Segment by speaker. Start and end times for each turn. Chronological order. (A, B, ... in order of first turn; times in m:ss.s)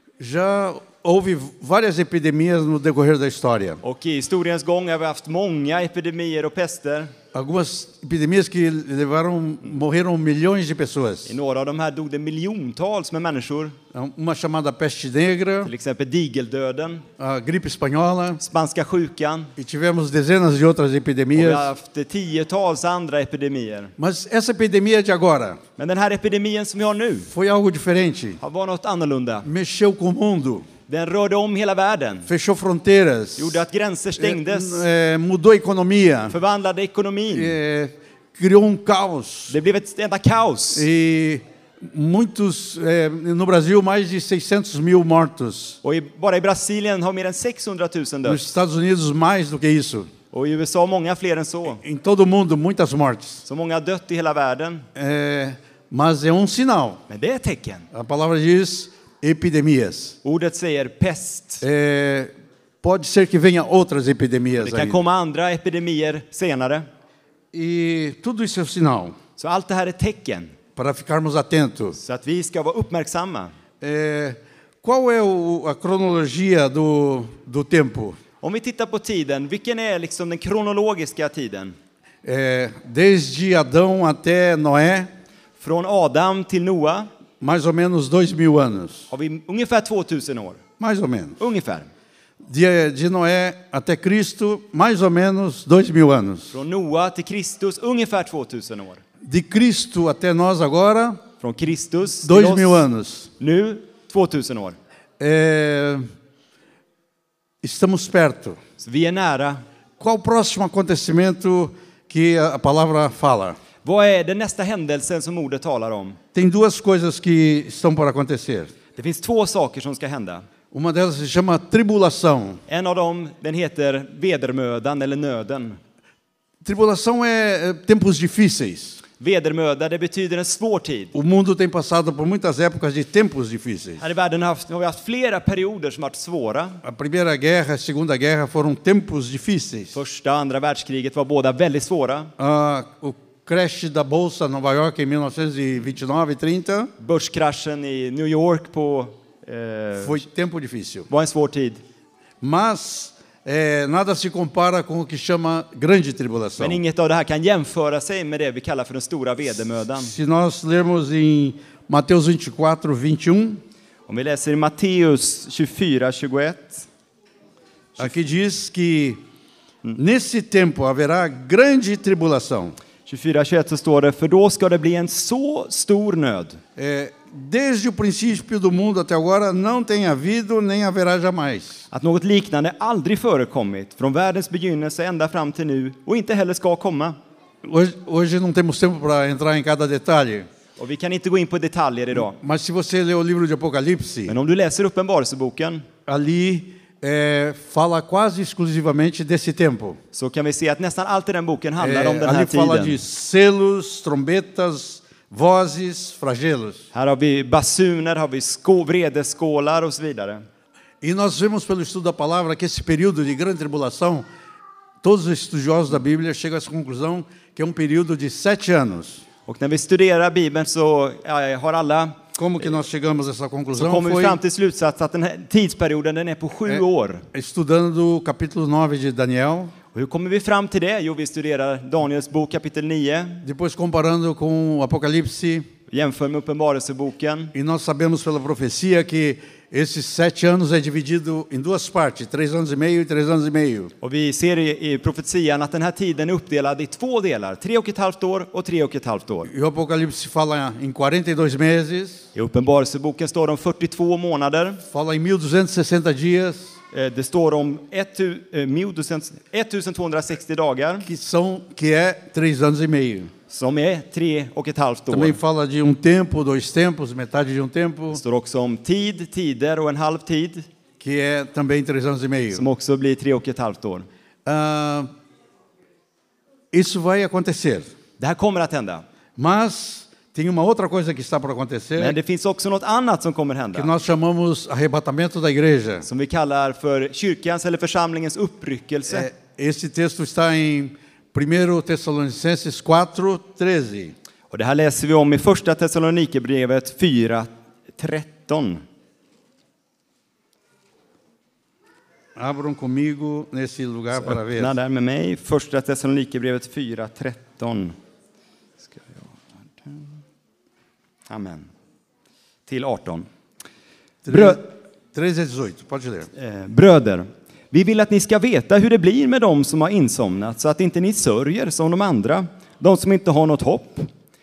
0:00.2-0:03.8 A
0:03.8-0:07.1 B
0:07.3-0:11.4 A
0:11.3-0:13.8 B
0:13.9-0:15.7 A
0:15.6-0:17.0 B
0:17.2-0:18.4 A
0:18.4-0:19.5 B
0:19.6-0:21.7 A
0:21.4-0:23.9 B
0:24.0-0:25.6 A
0:25.8-0:27.3 B
0:27.3-0:28.4 A
0:28.4-0:29.5 B
0:29.4-0:30.7 A
0:30.9-0:32.3 B
0:32.3-0:33.6 A
0:33.4-0:34.8 B
0:34.2-0:36.4 A
0:36.3-0:37.6 B
0:37.3-0:39.6 A
0:39.5-0:40.9 B
0:40.7-0:45.8 A
0:45.8-0:48.4 B
0:48.2-0:50.1 A
0:50.3-0:51.8 B
0:51.8-0:53.4 A
0:53.4-0:54.9 B
0:55.0-0:57.0 A
0:57.1-0:57.9 B
0:57.9-1:00.2 A
1:00.2-1:01.6 B
1:01.6-1:05.0 A
1:04.6-1:06.9 B
1:07.5-1:09.2 A
1:09.4-1:10.5 B
1:10.8-1:12.0 A
1:12.0-1:13.5 B
1:13.8-1:18.2 A
1:18.4-1:21.8 B
1:22.2-1:25.1 A
1:25.6-1:27.1 B
1:27.4-1:29.1 A
1:29.1-1:30.6 B
1:30.8-1:31.4 A
1:31.4-1:31.9 B
1:32.5-1:36.6 A
1:36.5-1:39.0 B
1:39.2-1:41.2 A
1:41.4-1:42.9 B
1:42.2-1:43.3 A
1:43.4-1:44.8 B
1:45.2-1:46.0 A
1:47.6-1:48.6 A
1:48.8-1:49.6 B
1:50.0-1:53.6 A
1:53.8-1:56.2 B
1:56.3-1:58.7 A
1:59.0-2:00.4 B
2:00.7-2:02.6 A
2:02.7-2:05.8 B
2:06.6-2:09.0 A
2:09.2-2:11.2 B
2:11.1-2:14.0 A
2:14.0-2:16.8 B
2:16.8-2:20.0 A
2:19.9-2:22.3 B
2:22.4-2:26.9 A
2:27.0-2:30.2 B
2:30.0-2:31.1 A
2:31.1-2:31.8 B
2:32.4-2:36.8 A
2:36.6-2:40.1 B
2:40.0-2:43.6 A
2:44.1-2:46.9 B
2:48.0-2:49.2 A
2:50.0-2:52.8 A
2:53.1-2:56.6 B
2:56.8-3:01.9 A
3:01.9-3:07.2 B
3:07.6-3:10.5 A
3:10.8-3:12.4 B
3:12.1-3:14.4 A
3:14.3-3:15.8 B
3:16.1-3:20.0 A
3:20.1-3:23.0 B
3:21.8-3:26.9 A
3:26.9-3:30.4 B
3:31.0-3:34.2 A
3:35.0-3:39.2 A
3:39.5-3:42.2 B
3:42.4-3:44.4 A
3:43.7-3:47.3 B
3:47.3-3:49.7 A
3:49.9-3:53.4 B
3:53.4-3:55.7 A
3:55.9-3:57.5 B
3:57.5-4:03.9 A
4:04.0-4:09.5 B
4:09.5-4:12.3 A
4:12.4-4:14.8 B
4:14.9-4:16.8 A
4:16.9-4:21.1 B
4:21.0-4:23.3 A
4:23.5-4:25.4 B
4:25.1-4:28.2 A
4:28.1-4:30.7 B
4:31.0-4:32.6 A
4:32.5-4:34.1 B
4:34.5-4:35.1 A
4:36.7-4:37.9 A
4:38.2-4:39.0 B
4:39.4-4:42.2 A
4:42.0-4:43.9 B
4:43.7-4:46.1 A
4:46.0-4:49.3 B
4:49.1-4:54.1 A
4:54.5-4:58.8 B
5:02.4-5:04.7 A
5:04.1-5:08.0 B
5:08.9-5:09.3 B
5:09.8-5:10.1 B
5:11.3-5:11.7 B
5:12.7-5:13.3 B
5:14.2-5:16.3 A
5:14.3-5:14.6 B
5:16.4-5:24.1 B